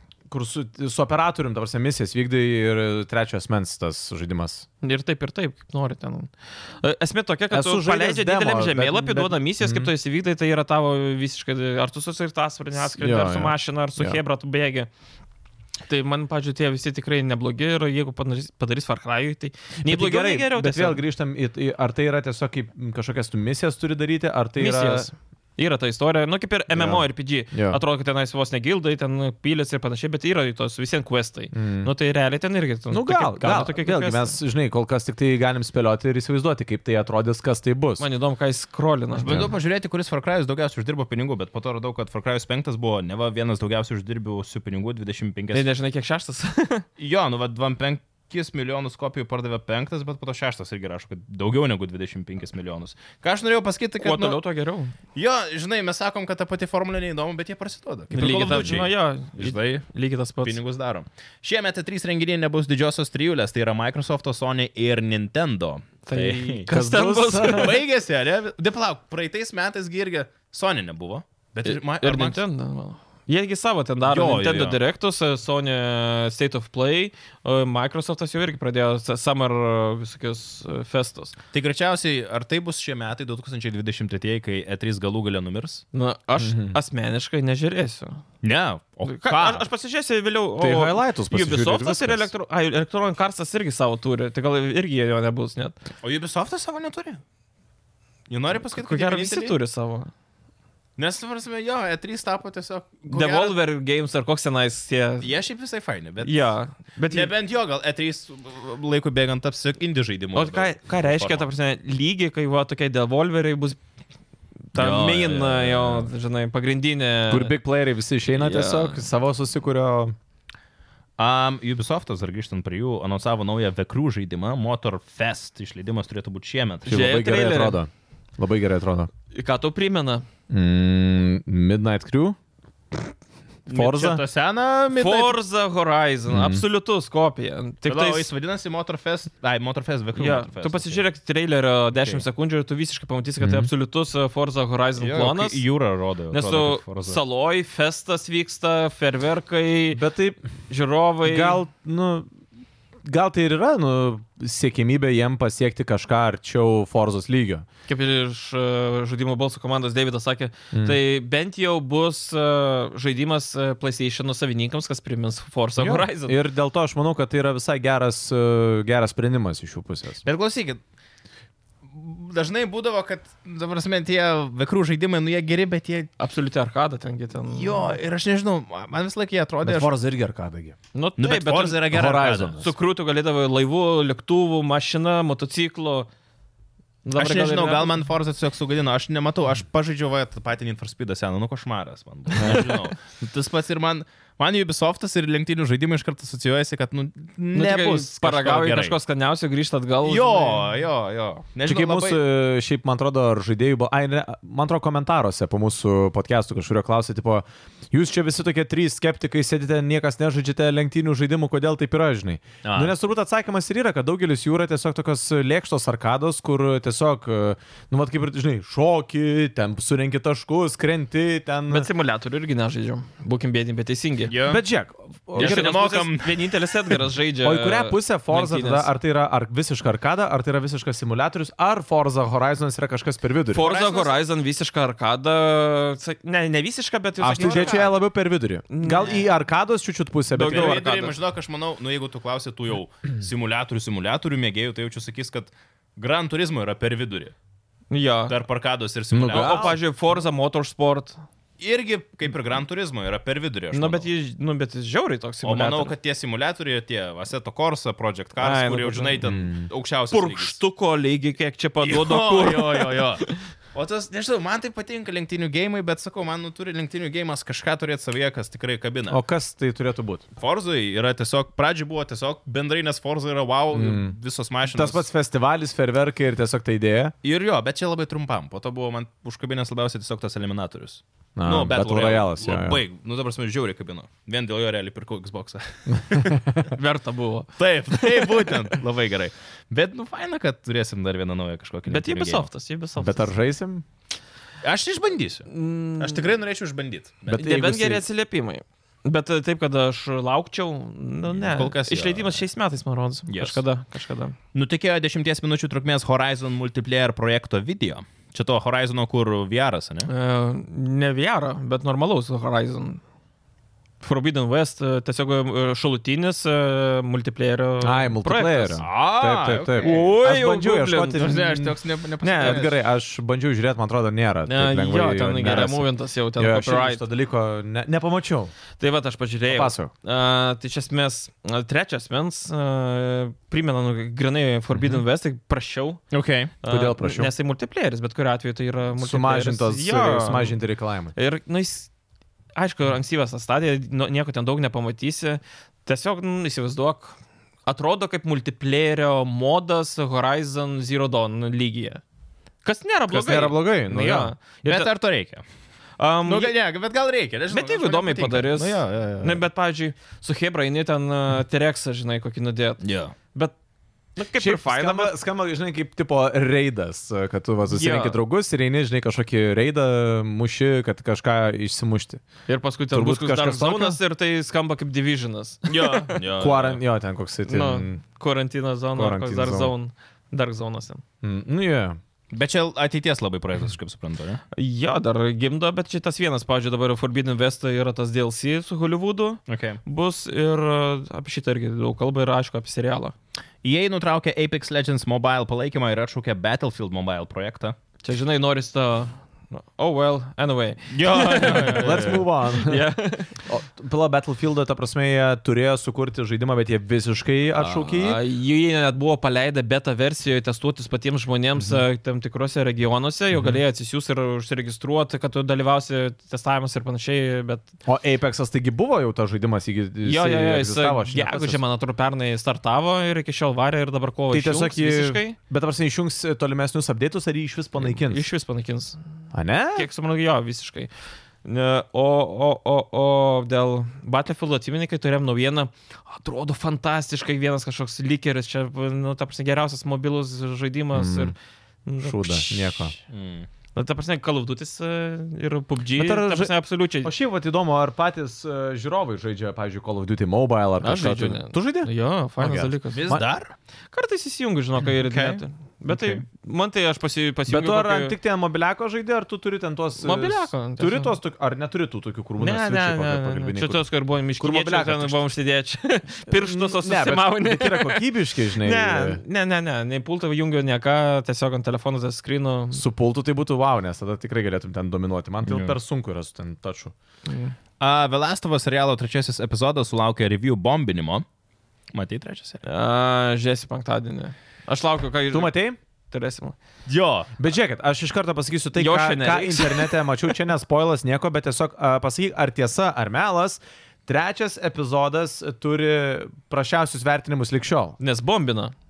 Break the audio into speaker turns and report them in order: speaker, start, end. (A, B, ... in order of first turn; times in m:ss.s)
0:00.3-0:04.6 A
0:04.8-0:14.9 B
0:07.5-0:09.9 A
0:12.8-0:14.2 A
0:15.9-0:21.0 B
0:19.8-0:25.1 A
0:24.6-0:34.3 B
0:26.7-0:27.8 A
0:31.5-0:31.9 A
0:32.9-0:38.0 A
0:38.0-0:39.4 B
0:39.2-0:45.7 C
0:45.5-0:46.9 B
0:47.0-0:54.4 C
0:54.0-0:54.9 B
0:55.1-0:59.8 C
0:58.1-1:00.6 B
1:00.4-1:06.7 C
1:06.1-1:07.8 B
1:06.7-1:07.8 A
1:07.4-1:12.4 C
1:11.6-1:21.4 B
1:14.1-1:14.8 C
1:21.5-1:25.8 C
1:25.9-1:28.2 B
1:26.4-1:26.8 A
1:28.4-1:29.6 C
1:29.0-1:35.8 B
1:30.6-1:32.3 A
1:36.0-1:37.2 C
1:38.3-1:39.6 C
1:38.6-1:40.1 B
1:41.0-1:43.6 C
1:43.1-1:45.3 B
1:45.2-1:46.5 C
1:46.2-1:47.3 B
1:47.1-1:51.5 C
1:50.3-1:53.8 B
1:54.7-1:57.5 B
1:54.7-1:56.0 C
1:57.3-2:00.2 A
1:58.3-1:59.0 B
2:01.2-2:06.9 C
2:06.9-2:07.8 B
2:06.9-2:09.1 A
2:09.3-2:10.3 B
2:10.5-2:12.4 A
2:13.7-2:14.2 A
2:13.7-2:15.4 C
2:15.0-2:18.3 B
2:16.3-2:16.6 A
2:17.8-2:21.0 C
2:20.2-2:25.6 B
2:23.4-2:23.7 A
2:25.0-2:27.2 C
2:26.3-2:30.0 B
2:29.9-2:30.4 A
2:30.7-2:31.6 B
2:31.2-2:32.3 A
2:33.0-2:37.7 A
2:37.9-2:46.4 B
2:40.7-2:41.0 A
2:45.8-2:50.2 A
2:50.2-2:50.8 C
2:51.9-2:56.1 C
2:56.2-2:58.0 B
2:57.5-2:59.9 C
2:59.6-3:00.8 A
3:00.9-3:01.9 B
3:01.2-3:02.6 C
3:01.9-3:02.7 A
3:02.6-3:06.1 B
3:07.0-3:08.0 B
3:07.2-3:19.0 C
3:12.4-3:12.7 A
3:12.4-3:12.7 B
3:17.5-3:20.7 B
3:20.0-3:22.2 C
3:21.7-3:41.9 A
3:32.6-3:32.9 C
3:41.7-3:44.3 B
3:44.3-3:44.6 C
3:44.4-3:45.8 A
3:45.4-3:46.7 C
3:45.4-3:48.9 B
3:47.4-3:53.7 A
3:53.5-3:57.9 B
3:53.6-3:54.2 C
3:57.2-4:00.8 A
3:57.3-3:57.9 C
3:58.7-3:59.2 B
4:00.3-4:01.2 B
4:00.5-4:07.3 C
4:07.9-4:08.4 B
4:08.3-4:09.8 C
4:09.1-4:09.8 A
4:09.3-4:11.2 B
4:11.6-4:14.1 C
4:13.7-4:16.0 B
4:15.4-4:20.6 C
4:18.4-4:19.2 B
4:19.2-4:19.6 A
4:20.1-4:23.4 B
4:21.8-4:29.2 C
4:29.1-4:30.2 A
4:30.4-4:35.0 C
4:33.7-4:34.1 A
4:34.7-4:37.1 A
4:37.2-4:46.6 C
4:41.4-4:42.8 A
4:45.9-4:46.6 A
4:46.7-4:48.5 B
4:47.6-4:52.5 C
4:51.9-4:53.3 B
4:53.0-4:53.8 A
4:54.6-4:57.4 C
4:55.5-4:56.3 B
4:57.3-4:58.0 A
4:57.3-5:04.4 B
5:01.4-5:02.4 C
5:03.3-5:03.6 C
5:04.5-5:10.1 C
5:10.1-5:13.0 B
5:14.0-5:18.8 B
5:17.8-5:21.8 A
5:18.8-5:20.1 C
5:19.8-5:21.3 B
5:21.2-5:22.8 C
5:22.2-5:22.6 B
5:22.4-5:28.5 A
5:24.5-5:27.0 B
5:28.8-5:36.0 B
5:29.5-5:29.9 A
5:34.7-5:35.0 A
5:36.1-5:36.5 C
5:36.6-5:40.6 B
5:36.7-5:37.3 A
5:39.0-5:41.1 A
5:41.2-5:41.9 B
5:42.6-5:52.0 B
5:52.6-5:54.9 B
5:53.1-5:54.3 A
5:54.7-5:55.4 C
5:56.0-5:56.5 B
5:56.3-5:59.4 C
5:57.5-6:03.5 B
6:02.8-6:03.1 C
6:04.2-6:05.1 B
6:04.4-6:12.2 A
6:07.7-6:08.2 B
6:12.5-6:16.2 B
6:12.9-6:14.0 A
6:15.7-6:16.8 C
6:16.3-6:18.0 A
6:17.5-6:21.0 B
6:18.9-6:19.7 A
6:21.2-6:22.0 A
6:22.3-6:24.4 C
6:24.5-6:33.1 B
6:29.5-6:29.8 C
6:33.6-6:37.8 C
6:38.0-6:43.4 B
6:40.9-6:42.3 C
6:41.5-6:42.9 A
6:43.4-6:48.2 A
6:47.6-6:57.7 B
6:51.6-6:51.8 A
6:53.3-6:53.6 A
6:57.9-7:01.6 A
7:00.0-7:05.4 B
7:04.3-7:08.3 A
7:07.8-7:09.0 B
7:09.3-7:09.9 A
7:09.7-7:10.9 B
7:11.4-7:21.3 B
7:20.9-7:21.3 A
7:21.9-7:22.8 B
7:22.0-7:22.9 A
7:23.1-7:23.5 C
7:23.7-7:27.1 B
7:26.0-7:33.2 A
7:30.8-7:33.1 B
7:32.9-7:33.5 C
7:33.9-7:38.1 B
7:34.9-7:36.2 C
7:37.5-7:43.8 A
7:40.0-7:41.1 B
7:42.4-7:52.8 B
7:44.4-7:45.2 A
7:46.3-7:49.2 A
7:52.7-7:56.9 A
7:55.4-7:55.8 C
7:57.3-7:57.6 B
7:57.8-8:01.2 C
8:01.9-8:02.6 C
8:02.6-8:05.5 B
8:05.3-8:05.8 A
8:06.1-8:06.6 B
8:06.9-8:07.3 C
8:07.4-8:18.0 A
8:08.8-8:10.0 B
8:18.0-8:18.7 B